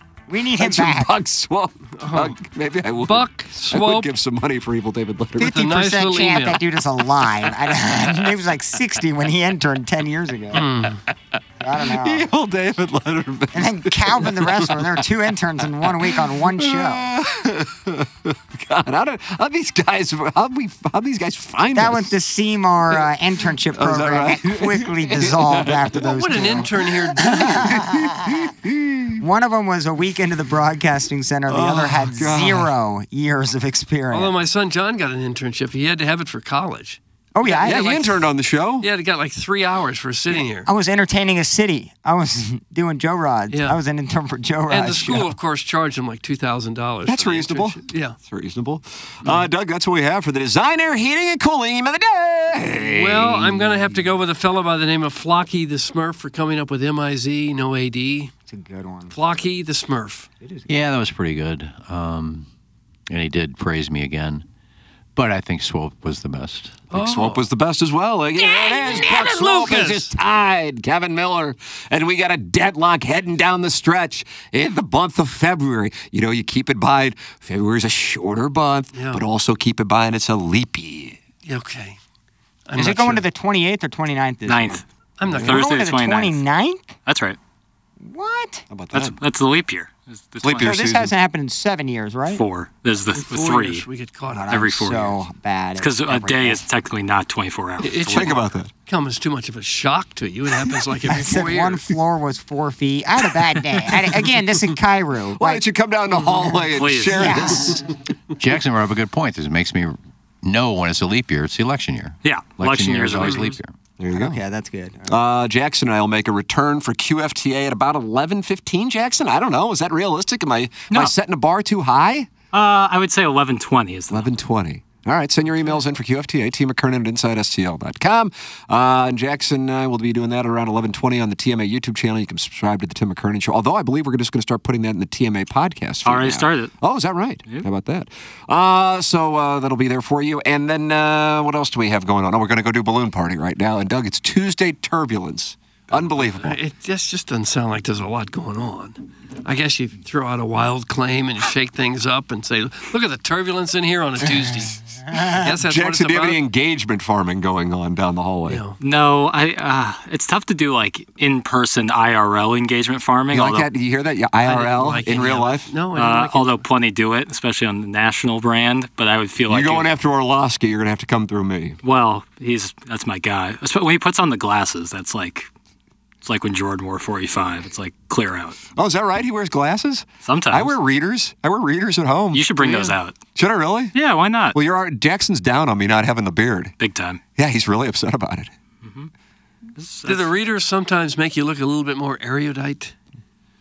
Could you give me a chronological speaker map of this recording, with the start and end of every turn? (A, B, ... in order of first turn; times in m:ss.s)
0:00.3-0:01.1 A
0:00.6-0:05.6 B
0:02.0-0:02.3 C
0:03.0-0:04.1 C
0:05.4-0:06.6 C
0:05.6-0:10.6 A
0:10.5-0:11.0 C
0:11.6-0:12.2 A
0:11.8-0:15.0 B
0:13.5-0:17.1 A
0:16.6-0:22.1 B
0:21.7-0:28.4 A
0:23.7-0:26.0 B
0:26.0-0:27.8 C
0:27.3-0:29.2 B
0:29.2-0:34.3 A
0:31.5-0:32.7 B
0:34.1-0:38.3 C
0:37.3-0:37.9 A
0:37.6-0:38.9 B
0:38.8-0:40.7 C
0:40.6-0:45.3 A
0:43.5-0:43.8 C
0:44.7-0:48.2 C
0:47.0-0:54.0 B
0:52.9-0:58.3 C
0:58.5-0:59.1 A
0:59.1-1:00.3 C
1:00.4-1:00.7 A
1:00.7-1:02.5 D
1:03.1-1:04.4 D
1:05.2-1:06.9 D
1:06.9-1:07.4 C
1:06.9-1:21.2 B
1:08.4-1:10.1 C
1:18.9-1:19.2 C
1:21.4-1:22.0 C
1:22.7-1:23.2 C
1:22.8-1:26.9 A
1:24.5-1:24.8 E
1:25.2-1:25.7 C
1:25.4-1:26.4 E
1:27.0-1:27.4 E
1:28.0-1:28.6 A
1:28.7-1:29.1 B
1:28.9-1:30.7 E
1:30.4-1:31.1 B
1:30.6-1:32.4 A
1:32.3-1:33.8 E
1:33.1-1:34.5 C
1:34.3-1:36.6 A
1:34.5-1:35.2 E
1:35.8-1:38.4 E
1:37.8-1:41.9 C
1:38.1-1:38.7 B
1:41.0-1:45.6 A
1:45.4-1:47.9 B
1:46.7-1:47.4 E
1:47.2-1:47.8 A
1:48.4-1:53.7 D
1:52.2-1:53.6 E
1:54.0-1:54.4 B
1:54.1-1:55.2 A
1:55.1-2:02.3 B
2:02.5-2:04.3 E
2:04.1-2:26.6 B
2:16.0-2:16.7 E
2:26.2-2:36.4 C
2:35.1-2:35.4 A
2:35.4-2:38.6 B
2:38.4-2:38.8 C
2:38.8-2:43.7 E
2:43.3-2:45.8 B
2:44.4-2:46.6 C
2:45.9-2:49.9 E
2:49.5-2:51.8 B
2:51.8-2:55.5 E
2:56.2-2:58.6 E
2:58.8-3:02.6 B
3:00.2-3:00.7 E
3:02.3-3:03.2 E
3:02.6-3:02.9 C
3:03.3-3:03.9 B
3:03.9-3:04.6 E
3:04.5-3:06.7 B
3:06.8-3:07.2 E
3:07.4-3:08.5 B
3:08.8-3:09.1 E
3:09.8-3:10.3 E
3:10.0-3:13.0 C